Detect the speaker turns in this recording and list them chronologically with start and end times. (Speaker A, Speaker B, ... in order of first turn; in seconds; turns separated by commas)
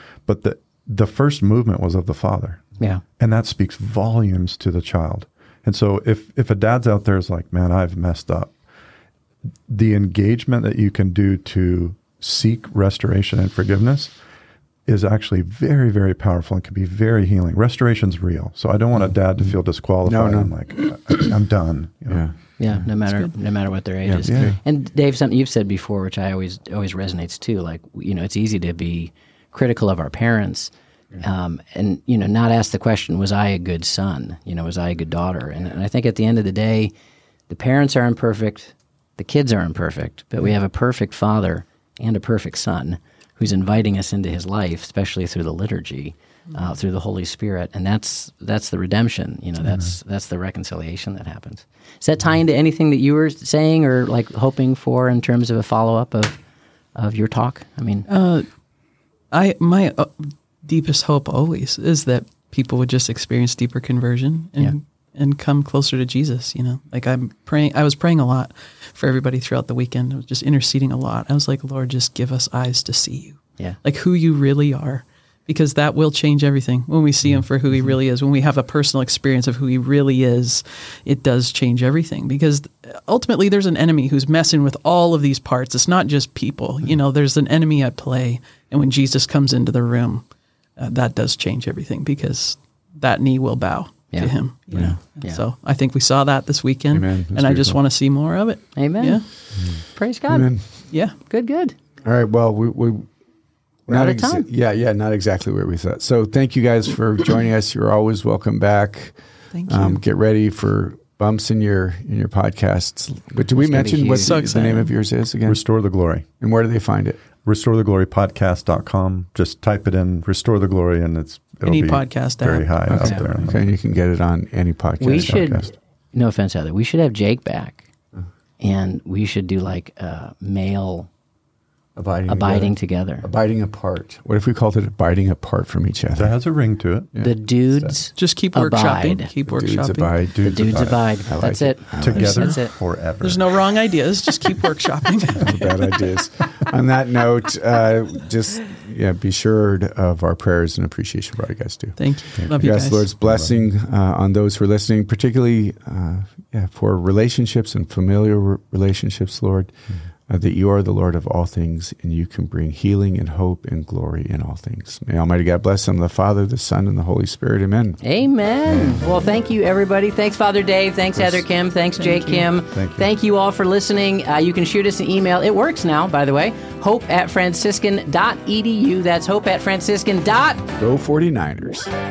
Speaker A: 0.2-2.7, Speaker A: 3.2-8.5, Speaker A: 9.7-14.1, Speaker A: 14.8-22.8, Speaker B: 19.4-20.6, Speaker B: 22.1-22.3, Speaker C: 22.6-36.9, Speaker D: 23.1-23.3, Speaker B: 24.0-24.6, Speaker A: 24.2-24.6, Speaker C: 37.5-56.4, Speaker C: 57.0-58.1, Speaker D: 58.1-58.5, Speaker D: 59.3-90.2, Speaker D: 90.8-99.2, Speaker B: 94.7-95.0, Speaker B: 96.9-97.8, Speaker C: 98.8-99.2, Speaker C: 99.9-100.5, Speaker B: 100.3-100.7, Speaker C: 101.2-101.7, Speaker B: 102.0-103.1, Speaker B: 103.9-115.6, Speaker C: 103.9-104.5, Speaker D: 109.5-110.0, Speaker C: 113.6-114.4, Speaker D: 114.2-114.9, Speaker A: 115.5-116.3, Speaker B: 116.4-117.2, Speaker A: 117.4-123.6, Speaker D: 121.6-123.0, Speaker B: 122.9-125.7, Speaker C: 125.0-127.8, Speaker A: 125.1-125.7, Speaker C: 128.6-131.1, Speaker B: 131.9-136.4, Speaker C: 132.3-133.2, Speaker A: 136.1-137.1, Speaker B: 137.1-137.9, Speaker C: 137.2-139.3, Speaker D: 138.1-140.1, Speaker B: 139.4-142.5, Speaker A: 140.4-140.9, Speaker C: 140.4-142.7, Speaker A: 142.0-143.5, Speaker D: 142.2-142.6, Speaker D: 143.2-146.0, Speaker B: 145.3-159.7, Speaker D: 152.0-153.1, Speaker A: 152.4-153.6, Speaker B: 160.3-168.0, Speaker C: 168.0-180.7, Speaker A: 168.7-169.0, Speaker D: 172.0-172.5, Speaker A: 172.7-173.1, Speaker B: 180.8-181.9